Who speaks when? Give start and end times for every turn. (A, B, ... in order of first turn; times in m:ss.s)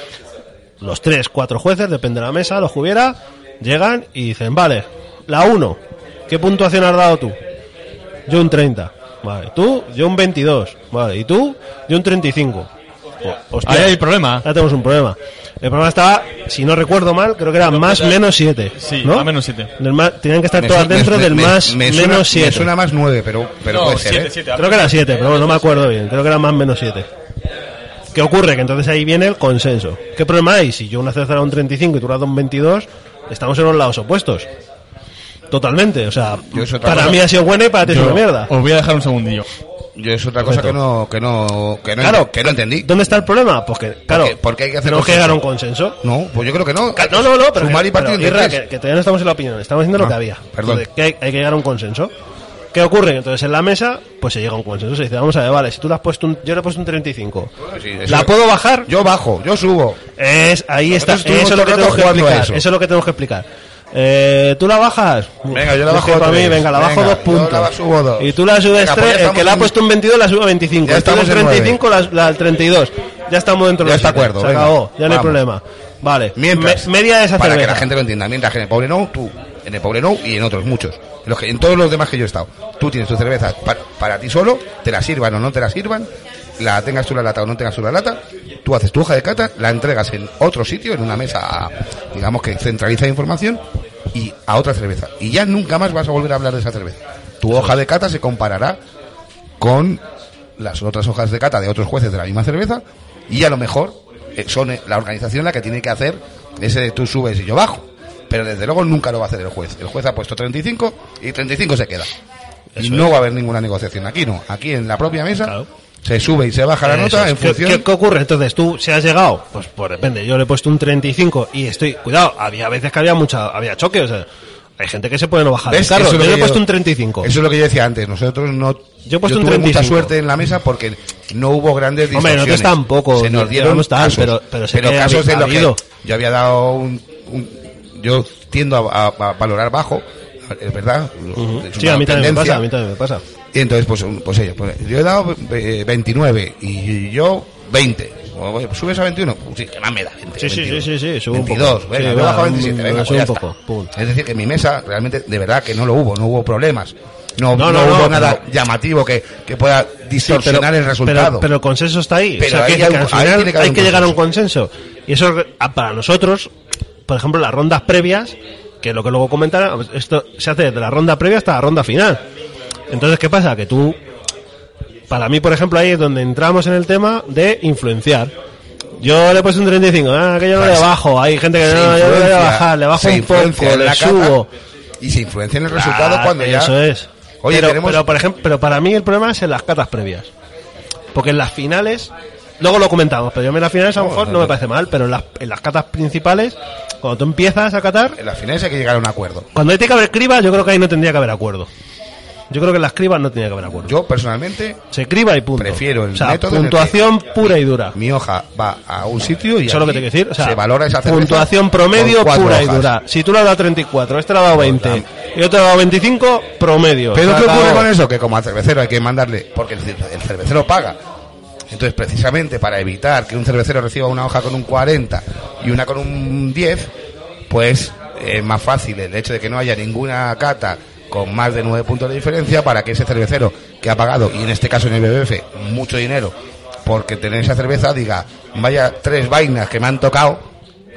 0:00.8-0:07.4 A
0:08.3-0:12.7 A
0:13.2-0:22.7 A
0:13.6-0:14.4 B
0:17.6-0:18.2 B
0:18.8-0:19.7 B
0:20.5-0:24.3 C
0:23.7-0:25.9 B
0:24.6-0:27.1 A
0:28.1-0:34.5 A
0:35.5-0:38.5 A
0:36.5-0:37.2 C
0:37.8-0:39.4 B
0:40.0-0:42.9 C
0:40.4-0:40.7 A
0:42.0-0:46.0 A
0:44.1-0:45.4 C
0:46.0-0:48.6 C
0:47.0-0:52.1 A
0:50.0-0:50.9 C
0:52.7-0:57.5 A
0:57.6-0:58.3 C
0:58.1-0:58.9 A
0:58.9-1:00.0 C
1:00.2-1:17.9 A
1:00.9-1:02.6 C
1:05.5-1:09.8 C
1:10.8-1:11.8 C
1:13.8-1:15.4 C
1:16.4-1:38.8 C
1:39.6-1:40.0 C
1:40.6-1:52.1 C
1:52.8-1:53.1 A
1:52.8-1:57.9 C
1:56.8-2:04.3 A
2:04.8-2:07.3 A
2:05.6-2:06.6 C
2:07.2-2:22.6 C
2:09.1-2:10.2 A
2:12.1-2:15.8 A
2:21.4-2:23.2 A
2:23.5-2:33.4 C
2:30.4-2:33.9 A
2:33.9-2:41.5 C
2:37.5-2:38.4 A
2:40.2-2:46.5 A
2:42.4-2:44.2 C
2:47.1-2:52.2 A
2:52.9-2:54.0 A
2:55.1-2:58.3 A
2:59.0-3:04.5 A
3:00.6-3:00.9 C
3:01.6-3:04.4 C
3:05.0-3:06.8 C
3:05.7-3:10.3 A
3:07.4-3:08.1 C
3:11.1-3:18.2 A
3:14.0-3:14.6 C
3:18.2-3:19.5 C
3:19.6-3:21.7 A
3:22.5-3:23.9 A
3:23.8-3:24.8 C
3:24.9-3:28.0 A
3:25.6-3:32.9 C
3:29.6-3:37.9 A
3:34.5-3:35.0 C
3:37.1-3:41.0 C
3:41.7-3:46.9 C
3:47.5-3:56.3 C
3:56.9-4:00.5 C